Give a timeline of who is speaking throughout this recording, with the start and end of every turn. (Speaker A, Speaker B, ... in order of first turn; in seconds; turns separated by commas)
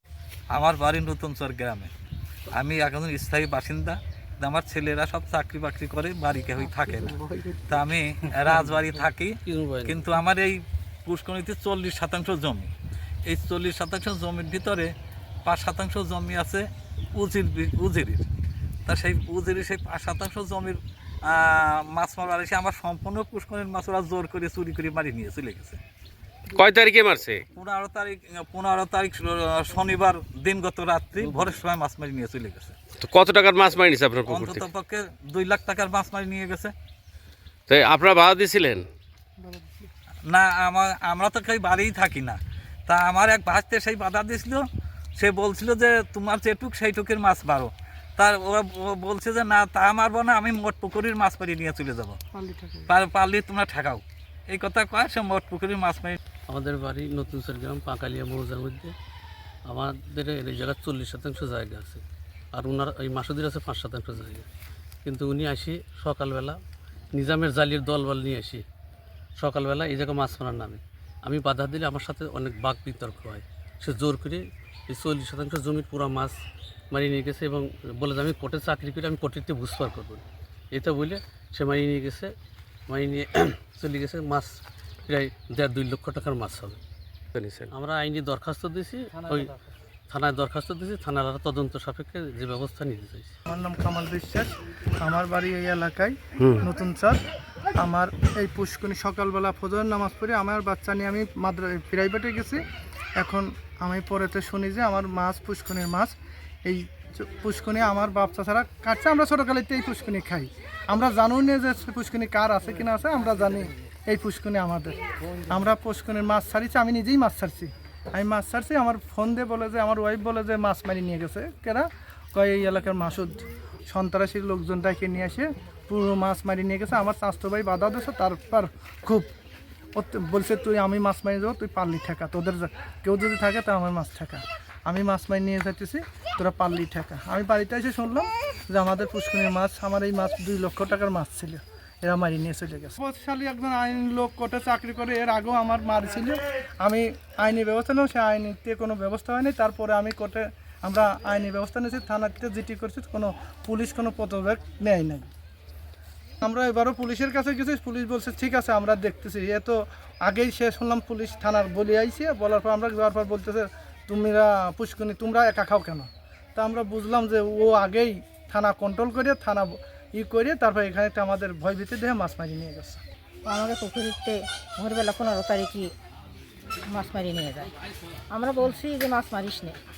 Speaker A: 0.5-1.9, Speaker A: 2.5-7.2, Speaker B: 7.1-7.6, Speaker A: 7.7-12.7, Speaker B: 8.5-10.1, Speaker A: 13.3-14.9, Speaker A: 15.4-18.2, Speaker A: 18.9-25.8, Speaker C: 26.5-27.4, Speaker A: 27.5-32.8, Speaker C: 33.0-34.7, Speaker A: 34.2-36.7, Speaker C: 37.7-38.9, Speaker A: 40.3-44.6, Speaker A: 45.2-52.2, Speaker A: 52.9-56.2, Speaker B: 56.5-58.9, Speaker B: 59.7-62.0, Speaker B: 62.5-64.5, Speaker B: 65.0-66.6, Speaker B: 67.1-68.6, Speaker B: 69.4-76.3, Speaker B: 76.9-80.2, Speaker B: 80.7-82.3, Speaker B: 82.9-86.8, Speaker C: 87.3-87.7, Speaker B: 87.7-89.5, Speaker B: 90.1-93.3, Speaker D: 93.5-97.2, Speaker D: 97.8-102.7, Speaker D: 103.2-106.1, Speaker D: 106.7-114.9, Speaker D: 115.5-129.3, Speaker D: 129.9-155.3, Speaker D: 156.4-173.0, Speaker E: 173.4-175.9, Speaker E: 176.9-177.7, Speaker E: 178.3-179.8